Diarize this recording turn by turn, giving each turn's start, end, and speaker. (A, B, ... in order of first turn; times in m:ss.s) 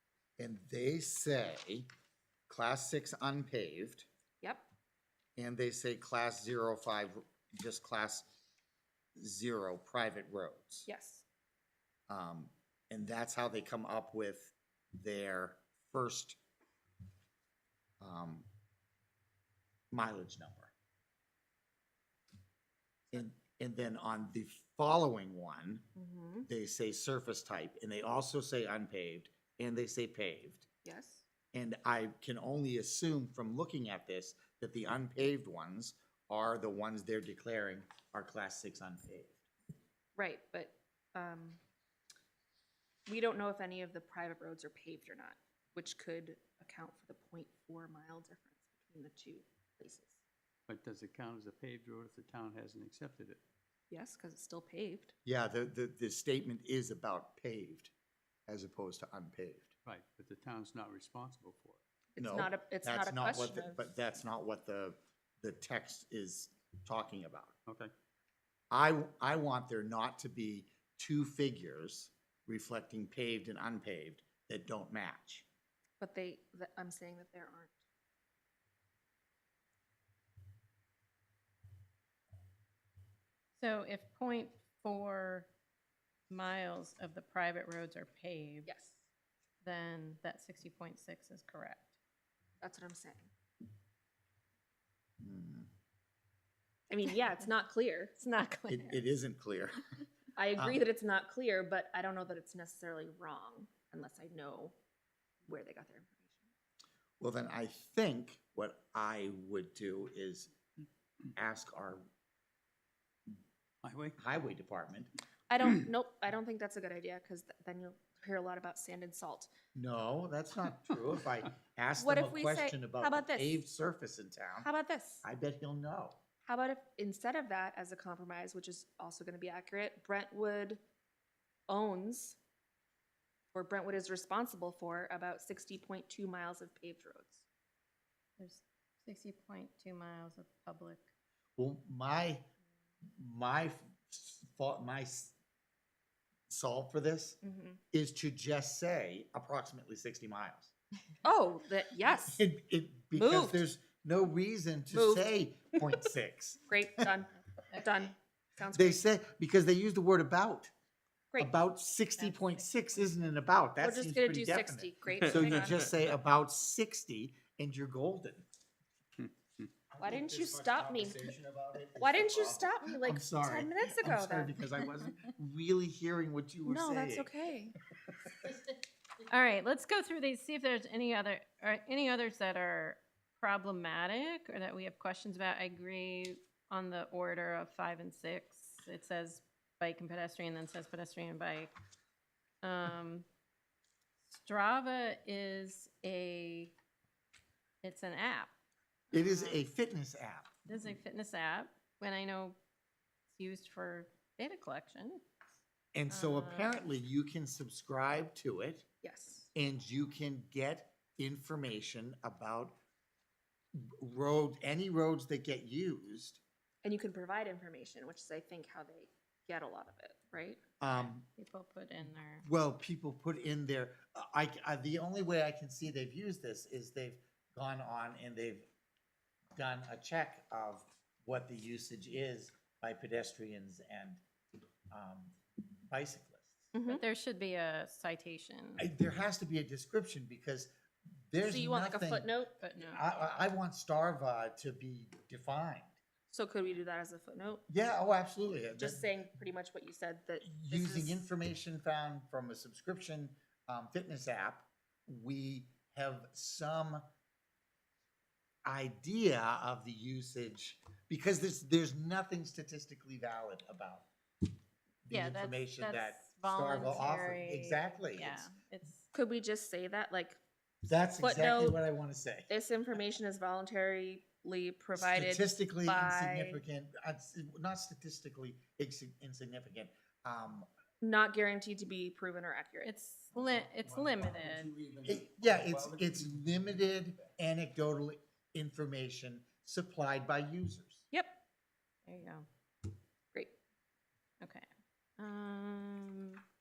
0:00.4-0:01.9 A
0:02.5-0:04.1 A
0:05.4-0:08.3 A
0:09.2-0:10.9 A
0:10.9-0:11.2 B
0:12.1-0:16.4 A
0:18.0-0:18.5 A
0:19.9-0:20.7 A
0:23.1-0:25.8 A
0:26.0-0:26.5 B
0:26.4-0:30.7 A
0:30.8-0:31.2 B
0:31.5-0:39.4 A
0:40.2-0:41.6 B
0:43.1-0:50.2 B
0:50.7-0:53.4 C
0:53.9-0:55.1 B
0:55.3-0:57.9 A
0:58.5-0:59.7 A
0:59.8-1:01.8 C
1:02.2-1:03.8 B
1:02.2-1:07.6 A
1:07.7-1:07.9 C
1:08.7-1:15.4 A
1:16.0-1:17.8 B
1:23.6-1:25.5 D
1:26.3-1:28.7 D
1:28.7-1:29.0 B
1:29.6-1:31.9 D
1:32.6-1:33.3 B
1:35.2-1:35.7 A
1:36.9-1:38.2 B
1:38.2-1:39.0 D
1:38.7-1:39.8 A
1:40.4-1:44.8 B
1:40.6-1:40.8 A
1:45.5-1:46.3 B
1:47.2-1:50.5 A
1:51.3-1:52.0 A
1:53.8-1:54.2 C
1:54.2-1:55.1 A
1:55.5-1:59.5 B
1:59.8-2:04.7 A
2:02.0-2:03.6 B
2:04.6-2:05.2 B
2:05.2-2:06.2 A
2:06.5-2:10.8 B
2:11.7-2:12.4 B
2:13.5-2:17.4 B
2:18.4-2:21.0 D
2:21.6-2:22.5 A
2:23.2-2:25.3 A
2:26.5-2:27.4 A
2:27.4-2:27.8 B
2:27.9-2:30.7 A
2:31.2-2:32.4 B
2:32.2-2:37.1 A
2:33.2-2:33.6 B
2:34.9-2:36.0 B
2:36.7-2:39.0 B
2:38.7-2:40.7 A
2:41.4-2:48.4 A
2:42.2-2:42.6 D
2:43.8-2:45.9 B
2:49.9-2:57.3 A
2:50.0-2:51.3 B
2:52.0-2:54.6 B
2:56.7-2:57.8 B
2:59.3-3:11.7 D
3:12.6-3:13.2 D
3:14.3-3:16.7 D
3:17.8-3:18.5 D
3:19.1-3:20.5 A
3:19.1-3:19.6 D
3:20.7-3:22.6 D
3:23.4-3:25.2 D
3:25.9-3:28.8 A
3:26.1-3:26.8 D
3:29.0-3:29.5 B
3:29.5-3:32.8 A
3:33.7-3:36.4 A
3:36.8-3:40.6 B
3:40.8-3:41.3 A
3:41.4-3:42.5 D
3:42.4-3:48.7 A
3:49.6-3:54.2 A
3:54.9-3:55.4 A
3:55.9-3:56.7 A
3:56.7-3:57.0 B
3:56.9-3:58.8 D
3:58.8-4:00.7 A
4:01.3-4:06.0 A
4:01.4-4:02.6 B
4:02.6-4:03.0 D
4:06.3-4:07.6 B
4:07.7-4:09.1 A
4:08.8-4:11.3 B
4:10.4-4:17.0 A
4:18.6-4:24.1 A
4:25.0-4:28.5 A
4:25.1-4:29.0 D
4:29.1-4:30.4 B
4:30.8-4:32.5 A
4:31.2-4:31.8 B
4:32.5-4:36.6 B
4:34.9-4:40.7 A
4:41.0-4:42.9 B
4:42.8-4:44.7 D
4:43.4-4:45.1 C
4:45.0-4:51.0 A
4:51.1-4:51.4 B
4:52.1-4:52.4 D
4:54.4-4:54.6 D
4:55.2-4:56.4 D